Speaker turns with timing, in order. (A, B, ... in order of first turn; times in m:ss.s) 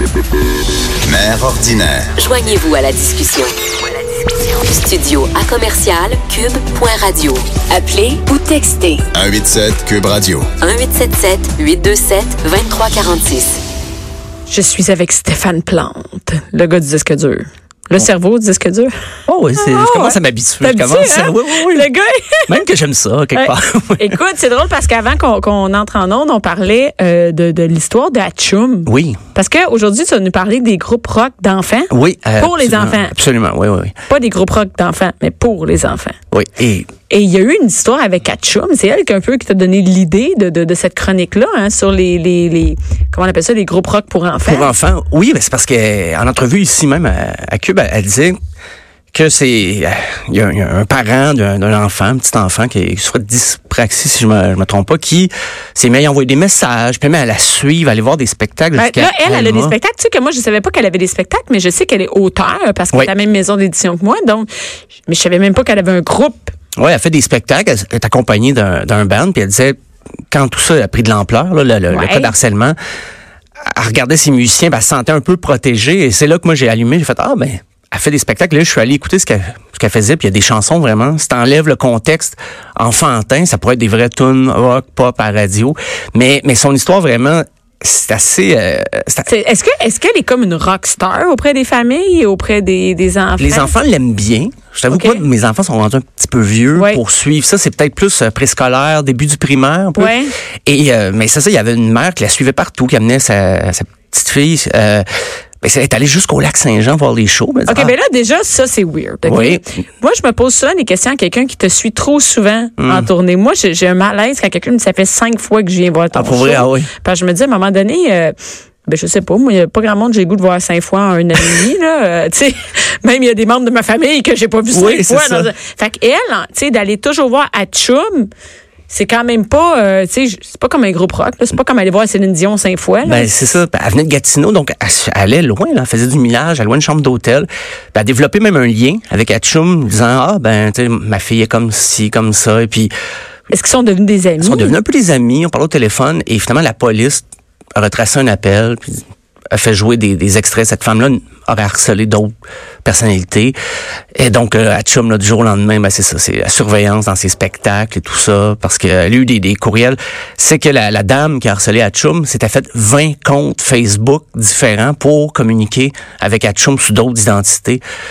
0:01.0-0:02.1 A
0:02.2-0:03.5 B
0:04.6-0:09.1 B
0:09.1-0:10.5 A
0:10.6-0:13.6 B
0:14.5-0:18.9 C
0:19.3-0:21.9 D
0:19.6-0:22.5 C
0:22.5-0:24.2 D
0:23.3-0:33.1 C
0:28.8-0:29.2 D
0:31.9-0:33.9 D
0:34.1-0:36.2 C
0:36.3-0:36.9 D
0:37.1-0:44.7 C
0:44.4-0:48.4 D
0:49.1-0:59.7 D
0:58.8-1:04.5 C
1:05.1-1:06.5 C
1:06.8-1:09.8 D
1:10.3-1:12.8 D
1:11.9-1:12.3 C
1:13.6-1:29.3 D
1:29.2-1:33.7 C
1:33.4-1:45.0 D
1:34.9-1:35.2 C
1:36.7-1:37.0 C
1:40.0-1:40.3 C
1:45.6-1:47.9 D
1:47.6-1:58.3 C
1:49.2-1:49.7 D
1:52.8-1:53.1 D
1:56.1-1:56.9 D
1:58.8-2:08.3 C
2:04.7-2:05.5 D
2:08.9-2:13.3 C
2:13.0-2:22.9 D
2:23.5-2:24.7 C
2:24.4-2:27.2 D
2:27.8-2:29.0 D
2:29.5-2:32.3 D
2:32.8-2:33.6 D
2:34.2-2:47.8 D